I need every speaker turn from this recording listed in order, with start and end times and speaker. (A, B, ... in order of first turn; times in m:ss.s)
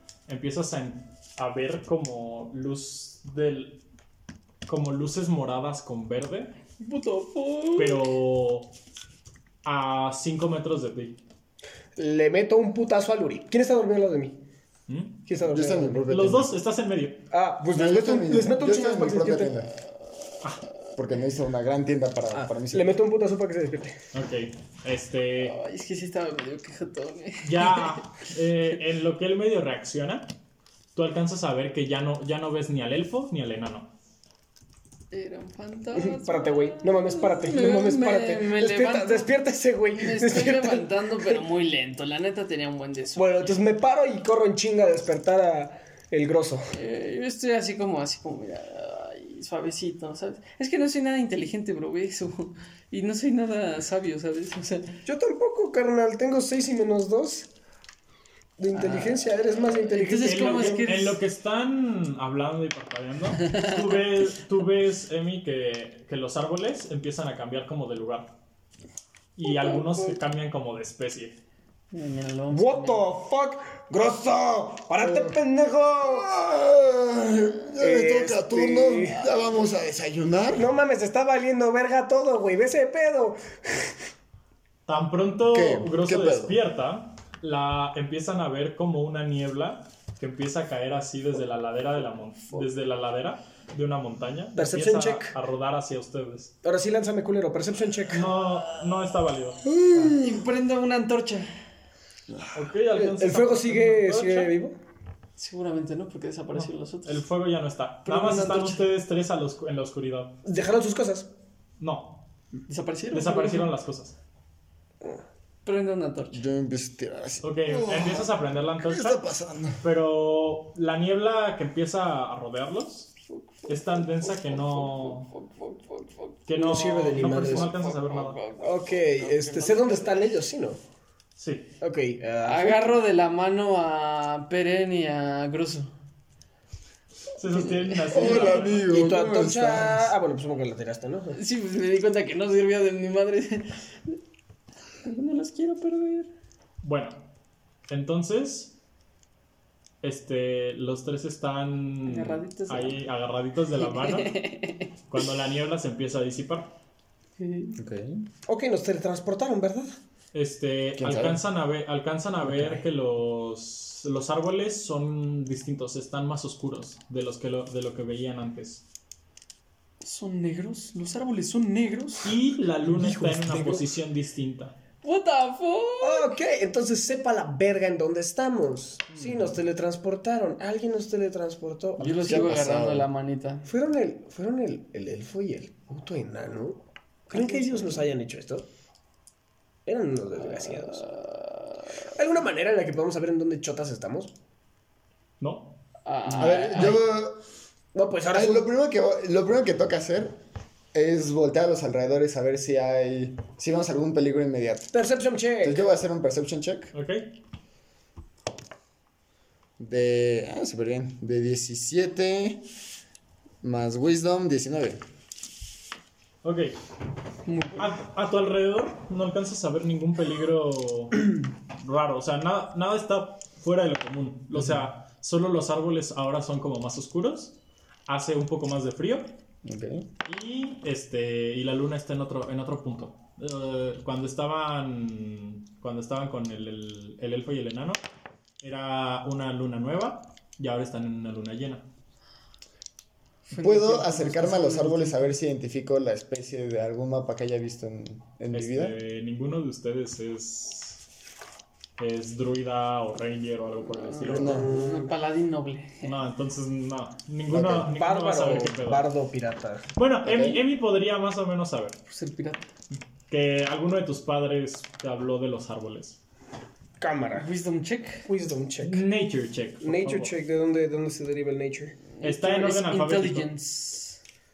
0:00.3-0:03.8 A
0:04.7-0:06.5 A
0:06.8-0:08.0 B
0:07.8-0:08.7 A
0:09.6-0:11.2 A
0:12.0-0:14.4 C
0:14.9-0:15.2 A
0:15.3-0:16.0 C
0:15.4-0:16.5 D
0:16.1-0:17.3 A
0:17.3-0:19.6 C
0:17.7-0:19.7 D
0:21.0-0:23.0 D
0:22.3-0:24.0 C
0:24.1-0:25.6 A
0:25.4-0:28.0 B
0:27.4-0:30.3 A
0:31.0-0:33.9 A
0:35.1-0:39.3 B
0:36.0-0:40.9 C
0:39.9-0:43.5 B
0:43.2-0:46.7 C
0:46.7-0:55.0 B
0:55.1-0:57.5 C
0:58.6-1:01.0 C
0:58.7-0:59.2 B
0:59.7-1:01.2 B
1:00.2-1:08.3 A
1:09.4-1:11.4 A
1:09.6-1:10.1 B
1:11.9-1:13.1 B
1:12.5-1:16.3 C
1:15.0-1:15.4 D
1:16.0-1:20.7 D
1:17.8-1:19.3 C
1:20.5-1:24.0 C
1:24.9-1:36.5 A
1:25.5-1:26.6 D
1:34.6-1:35.3 C
1:36.6-1:38.3 C
1:38.1-1:39.6 A
1:39.9-1:41.5 B
1:42.5-1:44.5 A
1:42.9-1:44.8 C
1:45.4-1:47.2 B
1:46.5-1:50.4 A
1:48.1-1:48.8 B
1:50.4-1:51.3 C
1:51.8-1:52.2 A
1:52.7-1:53.7 B
1:53.1-1:54.2 A
1:55.6-1:56.4 B
1:56.3-1:59.8 D
1:57.4-1:59.3 A
1:59.8-2:03.1 A
2:03.3-2:06.4 B
2:03.7-2:05.3 A
2:06.5-2:08.4 A
2:06.5-2:07.7 C
2:07.4-2:10.2 B
2:08.6-2:10.8 C
2:11.4-2:11.7 A
2:11.8-2:13.0 C
2:12.4-2:15.9 B
2:17.4-2:18.9 A
2:17.9-2:18.3 B
2:18.1-2:20.1 D
2:18.2-2:21.4 C
2:21.3-2:24.2 B
2:25.0-2:26.3 B
2:26.8-2:27.2 A
2:27.9-2:28.8 A
2:30.0-2:34.4 A
2:32.0-2:33.0 B
2:34.0-2:34.9 B
2:35.1-2:36.7 A
2:37.4-2:37.8 B
2:37.8-2:38.2 D
2:38.5-2:40.0 C
2:40.3-2:48.8 A
2:41.0-2:41.4 D
2:50.0-2:52.4 B
2:52.2-2:54.8 A
2:52.9-2:53.9 C
2:55.0-2:56.3 B
2:56.0-3:02.4 C
3:02.0-3:03.7 B
3:02.0-3:03.1 D
3:03.7-3:08.7 C
3:07.3-3:08.0 B
3:09.9-3:11.1 C
3:10.9-3:11.6 B
3:12.1-3:14.3 C
3:15.4-3:15.8 A
3:16.0-3:17.0 B
3:16.4-3:17.4 D
3:17.9-3:18.7 C
3:18.3-3:20.4 D
3:20.9-3:24.9 D
3:24.9-3:25.8 C
3:25.6-3:26.9 D
3:26.9-3:27.3 A
3:29.8-3:32.6 D
3:33.6-3:35.0 D
3:36.4-3:36.8 A
3:37.5-3:37.9 B
3:37.8-3:47.6 A
3:48.1-3:49.4 A
3:49.6-3:50.1 D
3:50.2-3:58.0 A
3:58.6-4:01.8 A
4:03.5-4:05.3 B
4:03.6-4:09.0 D
4:08.5-4:11.0 A
4:12.0-4:14.6 A
4:14.0-4:16.2 B
4:14.3-4:15.1 C
4:14.3-4:14.7 D
4:16.0-4:19.1 A
4:17.5-4:17.9 D
4:17.8-4:19.8 C
4:20.0-4:22.0 A
4:20.2-4:20.6 D
4:22.1-4:22.6 B
4:22.9-4:26.2 A
4:27.0-4:27.5 C
4:27.4-4:28.3 B
4:28.3-4:29.1 C
4:28.8-4:30.3 A
4:29.8-4:32.0 C
4:32.2-4:34.2 B
4:32.2-4:33.5 A